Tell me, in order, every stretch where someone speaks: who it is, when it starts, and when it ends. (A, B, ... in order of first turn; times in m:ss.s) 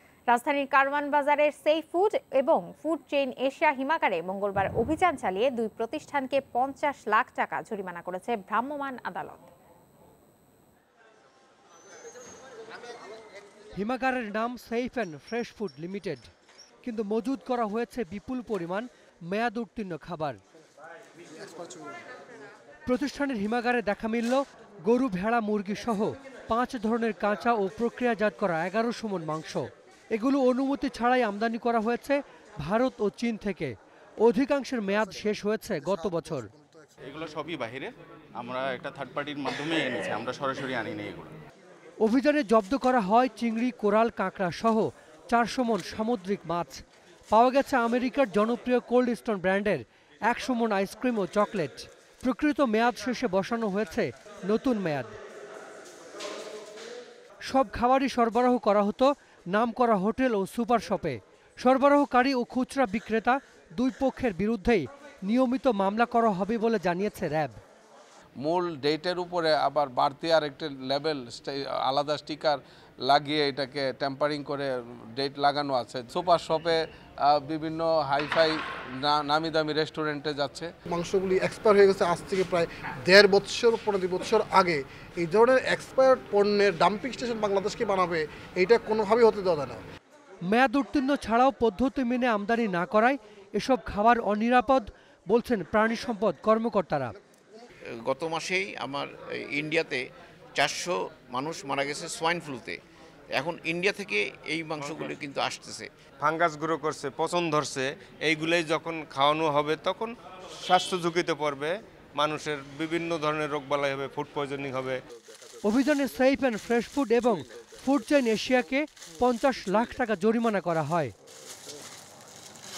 0:00.3-0:09.5 A
0:13.8-0:16.3 B
0:16.8-0:20.4 B
0:22.8-0:36.5 B
0:37.0-0:41.3 C
0:42.0-0:46.8 B
0:47.3-0:55.1 B
0:57.4-1:07.6 B
1:08.4-1:20.7 D
1:20.9-1:29.8 E
1:30.5-1:37.1 B
1:37.9-1:40.0 F
1:40.5-1:42.8 F
1:43.3-1:45.9 F
1:44.8-1:45.1 G
1:46.2-1:50.1 G
1:50.6-1:55.0 G
1:55.6-2:01.1 B